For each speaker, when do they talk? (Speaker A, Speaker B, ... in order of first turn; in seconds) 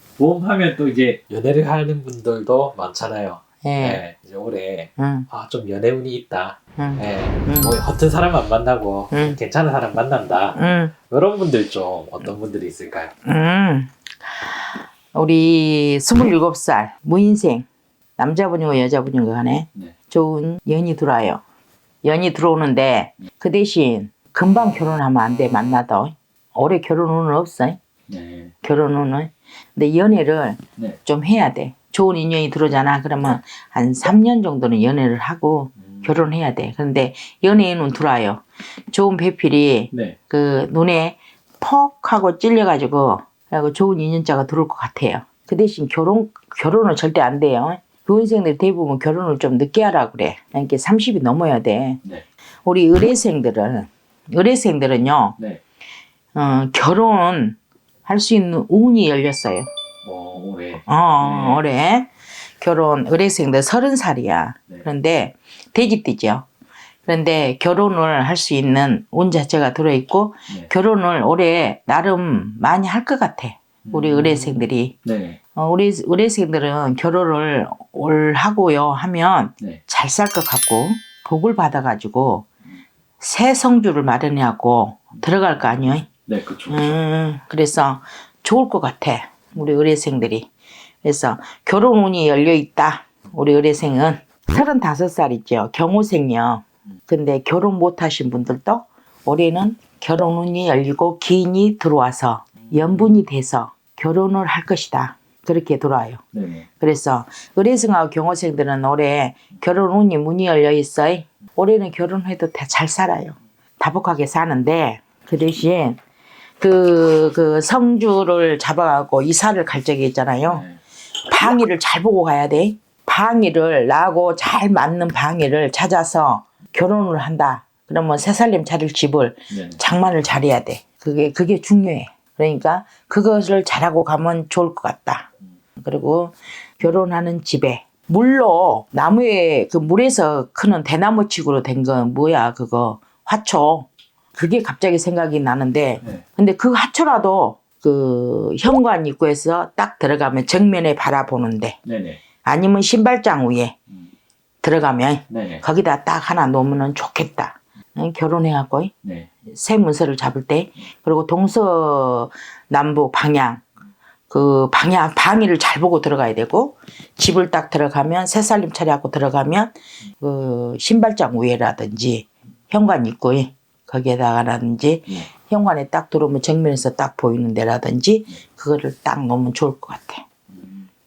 Speaker A: 0.2-10.6, 11.1-13.1, 28.1-28.5, 60.0-61.6, 73.8-75.4, 86.3-86.9, 106.3-106.7, 120.5-120.8, 129.5-129.8, 151.8-152.2, 155.3-155.6
Speaker B: 3.6-4.0, 5.0-5.3, 6.8-7.8, 9.1-9.4, 10.5-10.9, 13.2-17.6, 18.2-21.4, 22.0-27.8, 28.6-52.0, 52.6-55.4, 56.4-59.7, 60.9-66.5, 67.1-75.0, 75.5-82.5, 83.2-86.1, 86.7-90.5, 91.0-106.2, 106.8-116.0, 116.6-120.6, 121.2-135.3, 135.8-151.8, 152.4-153.8, 154.6-158.9, 159.4-163.6, 164.3-180.2